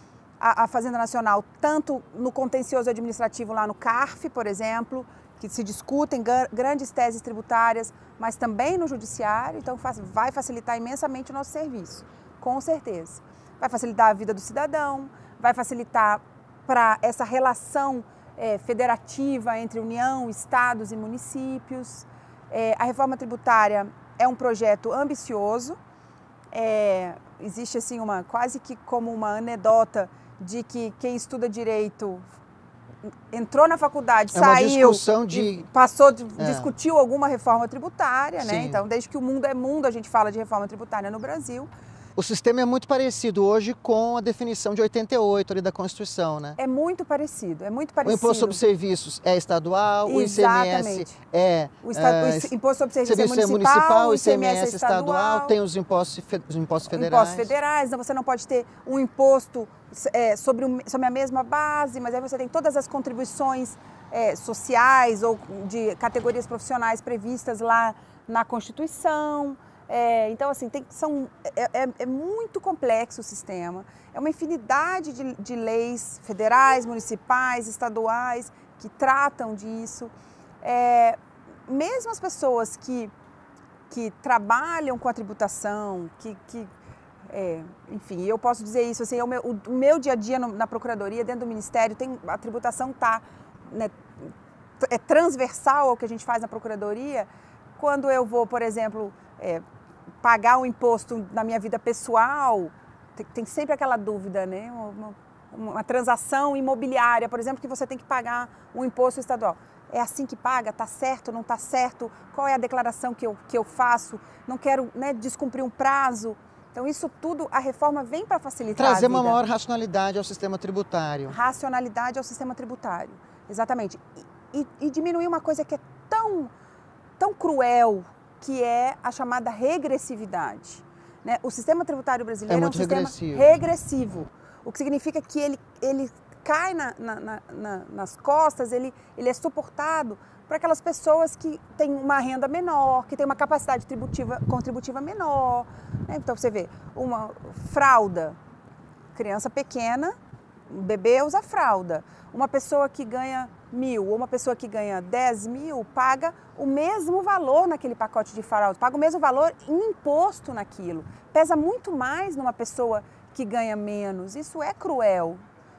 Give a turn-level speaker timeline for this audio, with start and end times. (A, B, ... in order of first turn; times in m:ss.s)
0:00.4-0:25.8 A
0:26.5-0:32.3 A
0:33.3-0:41.7 A
0:34.3-0:35.6 B
0:36.4-0:36.7 B
0:38.4-0:38.8 B
0:42.2-0:46.6 B
0:46.6-0:48.6 A
0:48.0-0:52.5 B
0:50.0-0:51.1 A
0:51.8-0:55.6 A
0:53.0-0:57.5 B
0:56.9-1:23.1 A
1:23.9-1:26.7 A
1:27.3-1:39.6 A
1:40.2-1:59.4 A
1:58.8-2:01.4 B
2:01.3-2:06.5 A
2:07.2-2:28.4 A
2:12.5-2:13.5 B
2:29.1-2:30.1 A
2:30.7-2:45.4 A